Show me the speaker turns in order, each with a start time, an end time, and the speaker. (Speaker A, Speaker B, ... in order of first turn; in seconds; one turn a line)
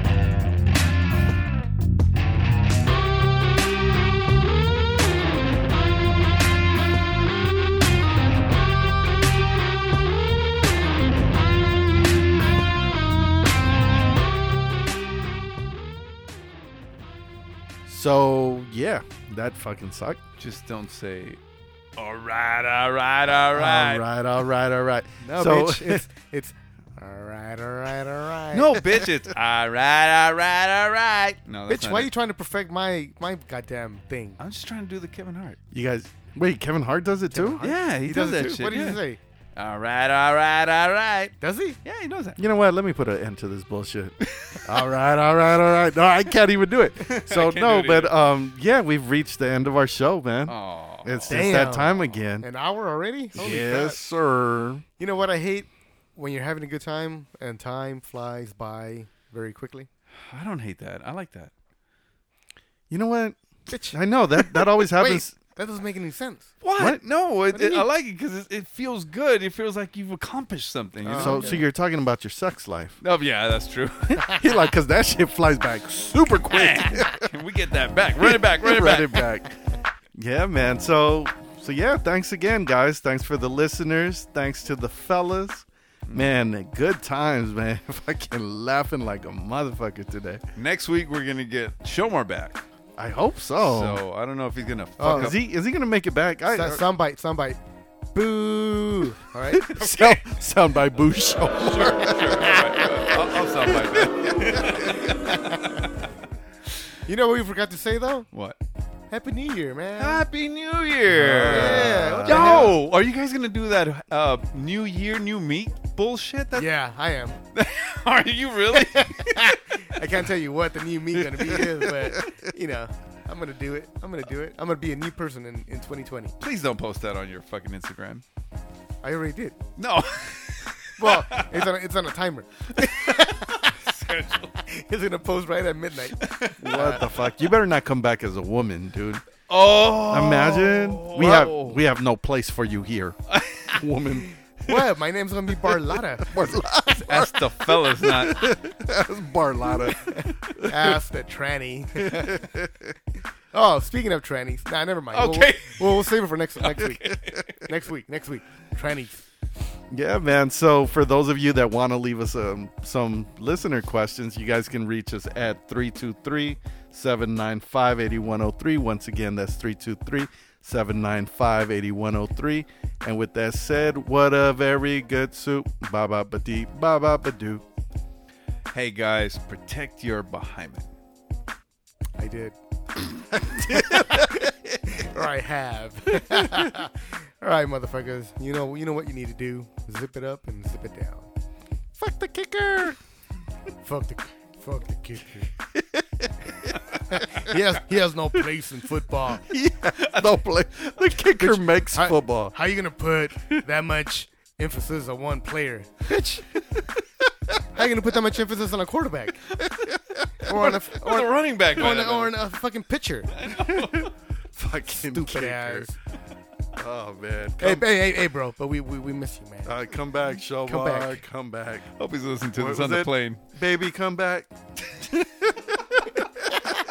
Speaker A: 17.9-20.2
Speaker B: 20.4-21.4
Speaker B: 22.0-24.1
Speaker A: 23.5-26.0
Speaker C: 25.2-28.8
Speaker B: 28.5-32.1
Speaker C: 31.7-34.4
Speaker B: 34.4-35.6
Speaker A: 35.7-37.6
Speaker C: 37.3-39.2
Speaker B: 37.6-39.0
Speaker B: 39.6-42.4
Speaker C: 41.4-41.8
Speaker A: 42.4-52.5
Speaker B: 44.2-44.8
Speaker B: 47.2-48.1
Speaker B: 50.5-51.4
Speaker C: 51.3-53.9
Speaker A: 53.4-54.9
Speaker B: 53.4-54.0
Speaker C: 55.0-59.9
Speaker B: 60.2-61.5
Speaker A: 62.9-63.4
Speaker C: 63.7-66.5
Speaker A: 63.9-65.3
Speaker B: 66.6-71.6
Speaker C: 67.5-67.9
Speaker C: 71.0-71.6
Speaker A: 71.1-73.0
Speaker B: 73.0-74.4
Speaker A: 74.3-77.3
Speaker B: 76.5-79.2
Speaker A: 78.2-79.6
Speaker A: 80.2-90.4
Speaker B: 90.6-92.6
Speaker A: 93.0-94.0
Speaker B: 93.6-95.5
Speaker C: 95.0-95.3
Speaker A: 95.0-96.8
Speaker C: 96.5-97.6
Speaker C: 98.1-100.2
Speaker A: 99.5-105.0
Speaker B: 101.5-105.9
Speaker C: 105.0-105.4
Speaker C: 107.1-108.3
Speaker C: 109.1-110.2
Speaker B: 110.0-116.7
Speaker A: 111.1-112.8
Speaker C: 111.5-112.8
Speaker C: 116.5-117.4
Speaker B: 117.5-119.6
Speaker C: 118.7-126.3
Speaker B: 121.4-121.7
Speaker A: 121.5-122.4
Speaker B: 126.4-128.2
Speaker C: 129.0-129.6
Speaker B: 129.8-131.7
Speaker C: 131.0-133.7
Speaker B: 132.8-134.6
Speaker C: 134.6-137.0
Speaker B: 136.2-136.9
Speaker A: 136.6-139.2
Speaker B: 139.5-141.8
Speaker A: 140.1-143.2
Speaker B: 143.3-143.8
Speaker A: 143.7-144.9
Speaker C: 144.7-146.6
Speaker A: 145.7-151.0
Speaker B: 147.1-148.5
Speaker C: 150.1-152.3
Speaker A: 152.0-152.9
Speaker C: 153.5-159.2
Speaker B: 155.1-156.1
Speaker B: 156.6-157.5
Speaker A: 159.9-177.6
Speaker B: 178.7-180.9
Speaker C: 182.2-182.6
Speaker A: 183.3-184.8
Speaker C: 183.7-191.3
Speaker A: 192.0-193.0
Speaker C: 193.8-195.5
Speaker A: 195.7-196.8
Speaker C: 197.1-199.4
Speaker A: 199.3-202.6
Speaker B: 200.0-200.3
Speaker C: 201.4-206.4
Speaker C: 207.7-209.5
Speaker A: 209.6-210.5
Speaker C: 210.4-213.3
Speaker B: 210.6-212.4
Speaker B: 213.3-214.1
Speaker A: 213.6-215.9
Speaker C: 215.0-215.9
Speaker A: 216.8-217.9
Speaker C: 217.6-219.8
Speaker A: 219.7-221.9
Speaker C: 220.7-221.2
Speaker B: 222.0-223.4
Speaker A: 222.5-226.6